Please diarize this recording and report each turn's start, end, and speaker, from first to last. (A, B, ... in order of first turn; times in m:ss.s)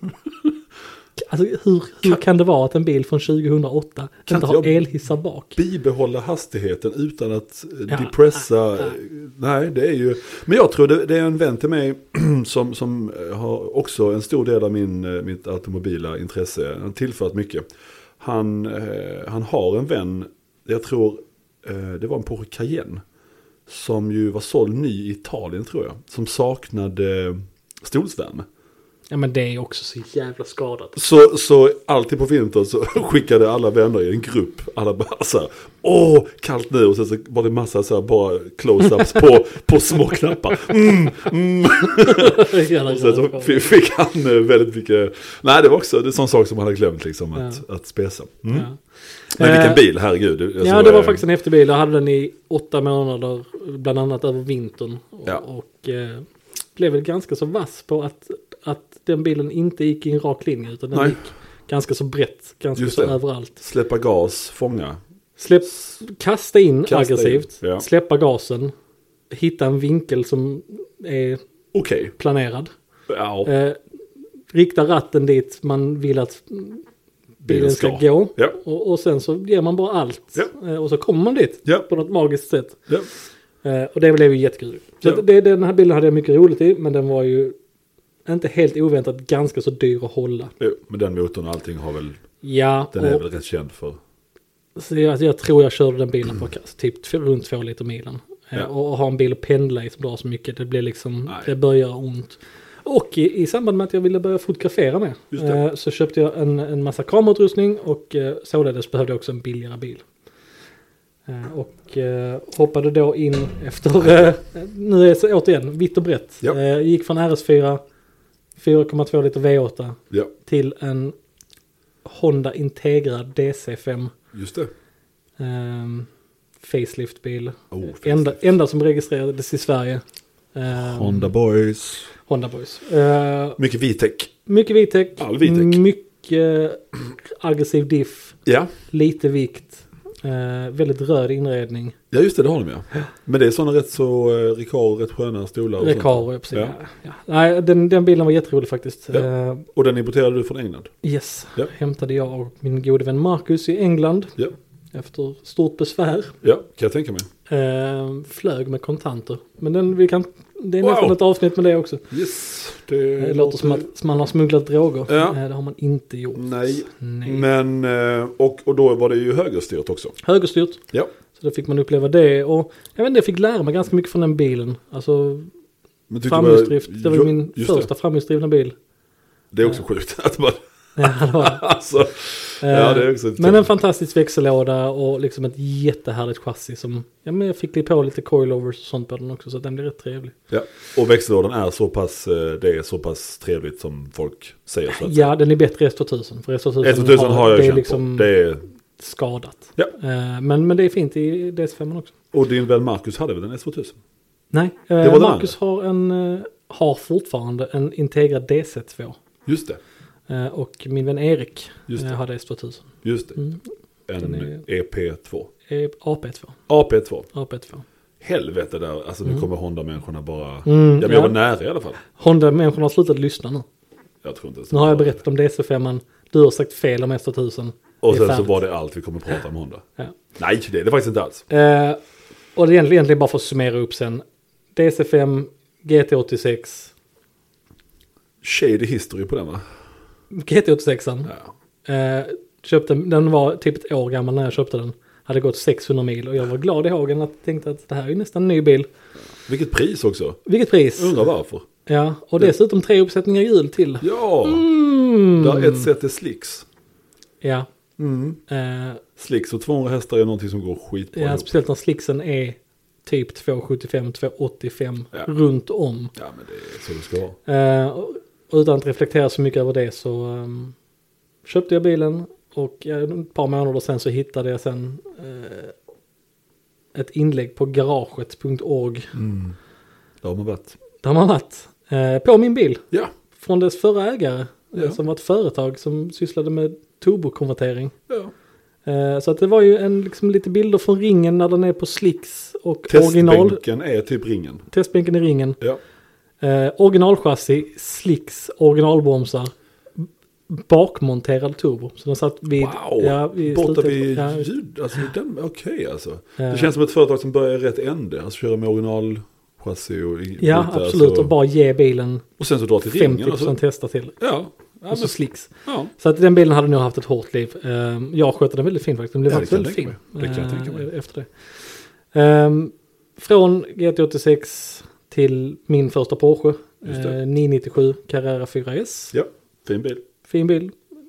0:01.2-0:05.6 A
0:04.3-0:04.8 B
0:05.6-0:17.6 B
0:18.2-0:23.0 B
0:23.7-0:28.5 B
0:29.1-0:31.0 A
0:31.0-0:48.7 B
0:42.0-0:43.7 A
0:47.4-0:47.6 A
0:48.5-0:48.8 A
0:49.4-0:49.8 A
0:49.4-0:51.2 B
0:50.6-1:03.6 A
1:00.9-1:01.2 B
1:02.8-1:05.0 B
1:05.4-1:08.7 A
1:06.9-1:07.8 B
1:09.3-1:11.4 A
1:11.7-1:12.1 B
1:12.2-1:12.7 A
1:13.1-1:13.5 B
1:13.4-1:13.8 A
1:14.5-1:16.8 A
1:17.4-1:18.6 B
1:17.5-1:22.8 A
1:23.6-1:27.6 A
1:28.3-1:30.5 A
1:30.6-1:32.2 B
1:32.4-1:33.2 A
1:32.9-1:34.0 B
1:34.8-1:50.0 A
1:45.3-1:45.6 B
1:51.3-1:57.8 A
1:58.6-2:01.2 A
2:02.0-2:04.1 A
2:04.3-2:04.7 B
2:05.4-2:06.1 A
2:06.6-2:10.0 A
2:07.7-2:08.4 B
2:10.6-2:11.3 A
2:10.7-2:12.1 B
2:12.3-2:13.6 A
2:13.6-2:14.3 B
2:14.5-2:22.0 A
2:15.2-2:15.8 B
2:18.4-2:18.7 B
2:22.1-2:26.8 B
2:25.8-2:29.7 A
2:29.1-2:30.9 B
2:31.0-2:34.3 A
2:34.9-2:36.4 A
2:36.4-2:37.3 B
2:37.5-2:42.1 A
2:40.8-2:41.2 B
2:42.1-2:43.9 B
2:43.2-2:47.4 A
2:45.1-2:45.4 B
2:46.4-2:50.2 B
2:50.2-2:50.8 A
2:51.4-2:55.5 A
2:56.1-2:57.9 B
2:56.3-2:58.8 A
2:59.5-3:03.7 B
3:01.0-3:01.6 A
3:02.6-3:10.4 A
3:10.5-3:15.3 B
3:14.9-3:18.3 A
3:16.8-3:18.6 B
3:19.0-3:22.1 A
3:22.3-3:24.0 B
3:24.5-3:29.2 A
3:25.0-3:25.5 B
3:29.5-3:29.8 B
3:30.3-3:33.6 A
3:31.9-3:32.2 B
3:33.0-3:33.4 B
3:34.1-3:35.5 B
3:34.2-3:34.6 A
3:35.7-3:36.6 A
3:36.7-3:37.3 B
3:37.3-3:37.8 A
3:38.2-3:42.0 B
3:40.6-3:41.4 A
3:42.2-3:43.6 A
3:44.2-3:45.2 B
3:44.7-3:48.6 A
3:48.0-3:49.8 B
3:50.4-3:51.4 B
3:51.5-3:52.0 A
3:52.6-3:54.2 A
3:54.8-3:56.9 A
3:58.4-3:59.6 B
4:00.3-4:01.3 A
4:01.9-4:08.9 A
4:09.4-4:10.4 B
4:10.5-4:11.2 A
4:11.0-4:11.6 B
4:11.9-4:15.9 A
4:14.0-4:14.6 B
4:15.4-4:16.7 B
4:17.4-4:17.7 A
4:18.0-4:18.4 B
4:18.5-4:19.0 A
4:19.2-4:21.5 B
4:21.1-4:26.1 A
4:26.2-4:27.4 B
4:27.5-4:30.8 A
4:31.4-4:35.7 A
4:36.9-4:39.1 A
4:39.1-4:39.6 B
4:40.2-4:40.8 B
4:41.0-4:42.8 A
4:43.4-4:47.9 A
4:48.9-4:53.6 A
4:52.9-4:54.7 B
4:54.7-4:55.6 A
4:56.4-5:04.5 A
5:02.6-5:11.3 B
5:06.4-5:06.7 A
5:10.4-5:12.3 A
5:12.4-5:13.6 B
5:12.9-5:14.2 A
5:14.2-5:15.2 B
5:14.9-5:21.3 A
5:15.7-5:15.9 B
5:19.3-5:20.9 B
5:22.1-5:29.1 A
5:26.8-5:27.2 B
5:29.1-5:30.0 B
5:30.2-5:30.8 A